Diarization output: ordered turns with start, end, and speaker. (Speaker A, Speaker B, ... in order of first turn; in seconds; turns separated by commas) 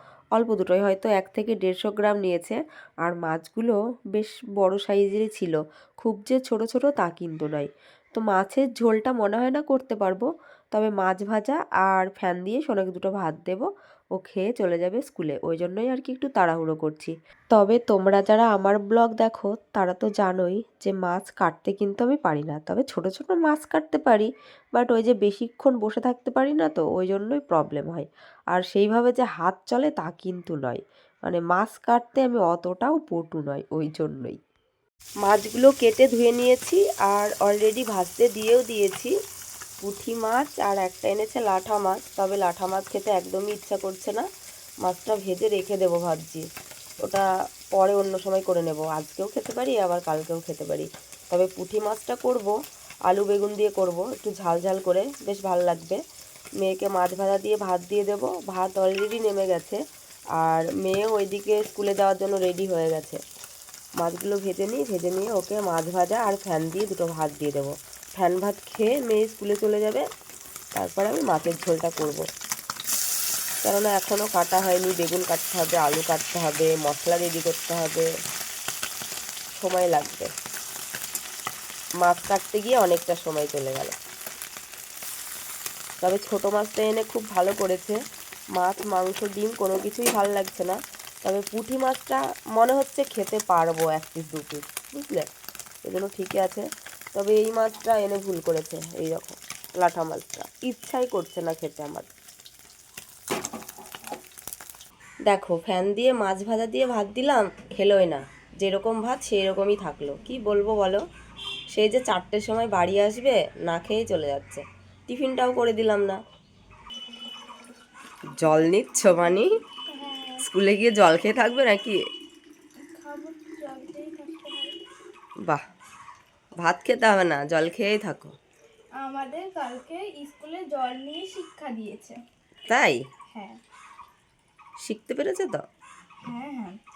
Speaker A: 0.3-34.4, Speaker A: 35.2-39.1, Speaker A: 39.8-44.3, Speaker A: 44.8-46.5, Speaker A: 47.0-52.5, Speaker A: 53.1-56.0, Speaker A: 56.6-59.8, Speaker A: 60.4-63.2, Speaker A: 64.0-70.0, Speaker A: 70.7-72.3, Speaker A: 73.6-78.1, Speaker A: 79.5-80.3, Speaker A: 82.0-84.0, Speaker A: 86.0-88.0, Speaker A: 88.5-95.3, Speaker A: 95.8-102.1, Speaker A: 105.2-111.0, Speaker A: 111.7-116.2, Speaker A: 118.4-119.5, Speaker B: 119.9-120.4, Speaker A: 120.4-122.0, Speaker B: 122.8-124.8, Speaker A: 126.6-128.3, Speaker B: 129.0-132.2, Speaker A: 132.7-133.0, Speaker B: 133.3-133.6, Speaker A: 134.8-135.6, Speaker B: 136.2-136.8